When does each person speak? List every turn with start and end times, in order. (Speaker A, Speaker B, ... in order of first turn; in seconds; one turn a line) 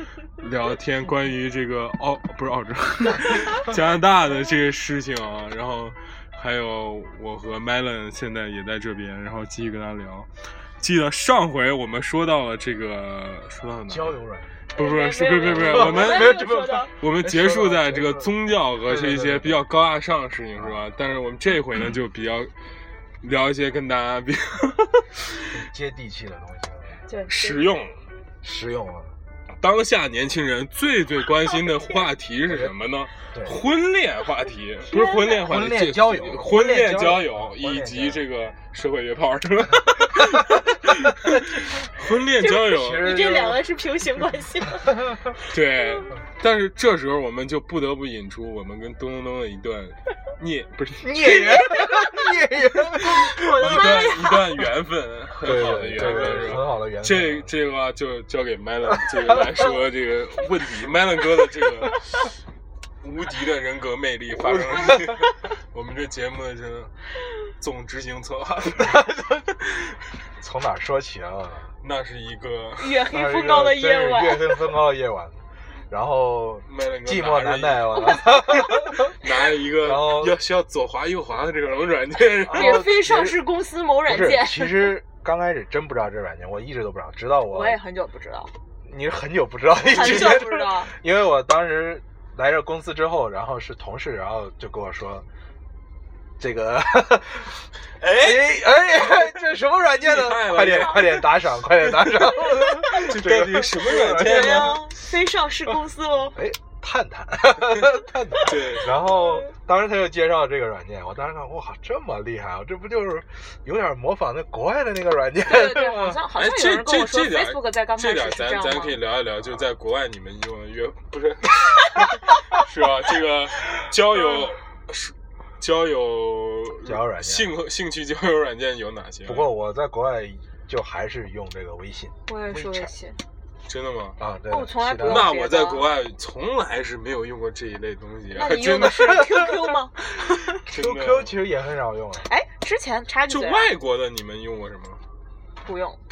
Speaker A: 0.3-14.2
Speaker B: 13.9-14.6
Speaker A: 14.7-16.4
Speaker C: 14.8-16.9
Speaker B: 15.4-19.6
Speaker A: 16.9-22.5
Speaker B: 20.6-20.8
Speaker A: 23.2-25.5
Speaker B: 25.5-27.0
Speaker C: 27.1-27.6
Speaker A: 27.3-28.0
Speaker B: 28.4-29.1
Speaker A: 29.6-43.6
Speaker C: 31.6-32.0
Speaker C: 34.8-35.5
Speaker B: 35.5-38.2
Speaker B: 41.1-41.6
Speaker C: 42.4-46.0
Speaker B: 42.7-43.5
Speaker A: 45.5-51.5
Speaker B: 51.0-53.4
Speaker C: 51.2-52.4
Speaker C: 53.0-54.6
Speaker A: 53.3-62.0
Speaker B: 55.4-57.5
Speaker A: 63.0-69.1
Speaker B: 64.6-64.9
Speaker B: 68.8-69.5
Speaker B: 70.4-71.7
Speaker A: 71.8-73.0
Speaker C: 72.8-74.7
Speaker B: 73.1-79.2
Speaker A: 76.7-82.8
Speaker C: 78.0-78.8
Speaker B: 79.8-80.4
Speaker B: 82.4-83.4
Speaker C: 82.5-84.9
Speaker B: 84.1-87.8
Speaker C: 87.5-88.5
Speaker B: 88.8-95.2
Speaker C: 89.8-90.9
Speaker B: 96.4-104.8
Speaker A: 98.0-99.3
Speaker A: 99.9-104.8
Speaker C: 104.0-106.4
Speaker B: 106.3-116.2
Speaker A: 108.4-109.4
Speaker C: 115.4-119.0
Speaker A: 116.3-129.5
Speaker B: 126.8-127.5
Speaker B: 129.2-132.9
Speaker C: 132.3-133.2
Speaker A: 133.7-134.2
Speaker B: 134.2-135.3
Speaker C: 134.5-135.9
Speaker A: 135.0-139.2
Speaker C: 138.3-140.6
Speaker A: 140.6-141.3
Speaker B: 140.7-142.3
Speaker C: 142.2-143.7
Speaker A: 143.3-145.0
Speaker C: 145.6-146.0